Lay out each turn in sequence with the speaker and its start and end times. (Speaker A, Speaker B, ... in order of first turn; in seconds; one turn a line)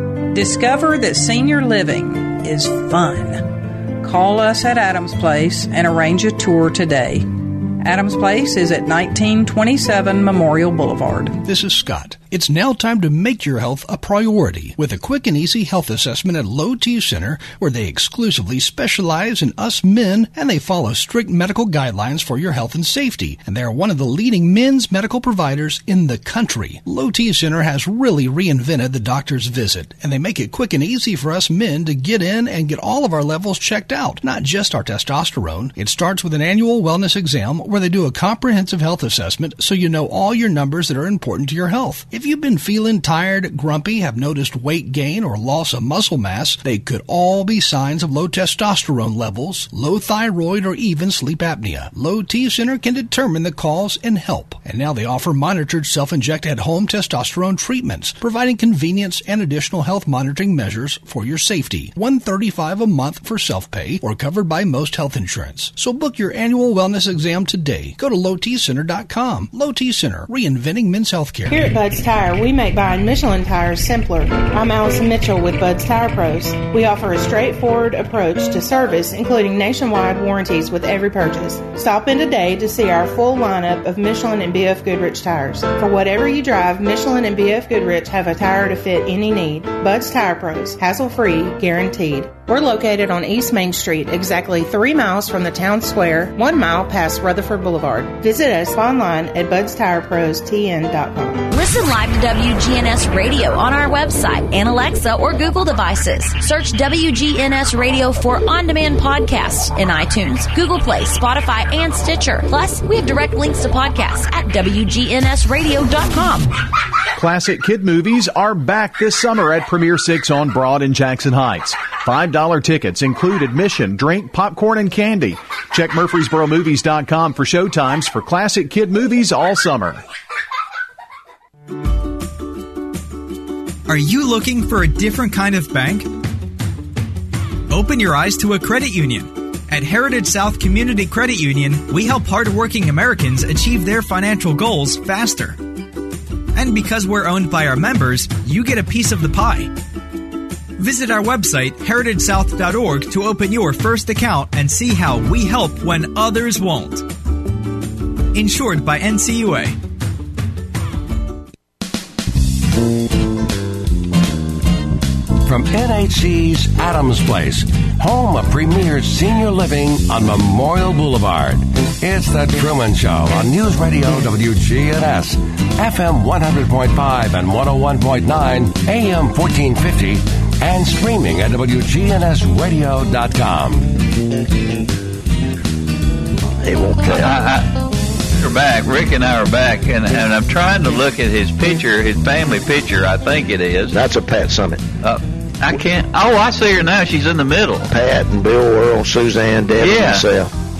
Speaker A: 0.2-11.4
Speaker B: 11.4-71.6
Speaker C: 71.5-101.5
Speaker D: 101.5-116.5
Speaker E: 117.1-130.0
Speaker F: 133.9-136.2
Speaker F: 137.7-145.6
Speaker F: 146.5-149.7
Speaker F: 150.8-157.1
Speaker F: 158.3-159.8
Speaker G: 165.4-184.0
Speaker H: 186.6-187.4
Speaker I: 187.0-194.0
Speaker H: 193.9-194.8
Speaker I: 195.0-197.9
Speaker H: 197.9-200.5
Speaker I: 199.8-200.2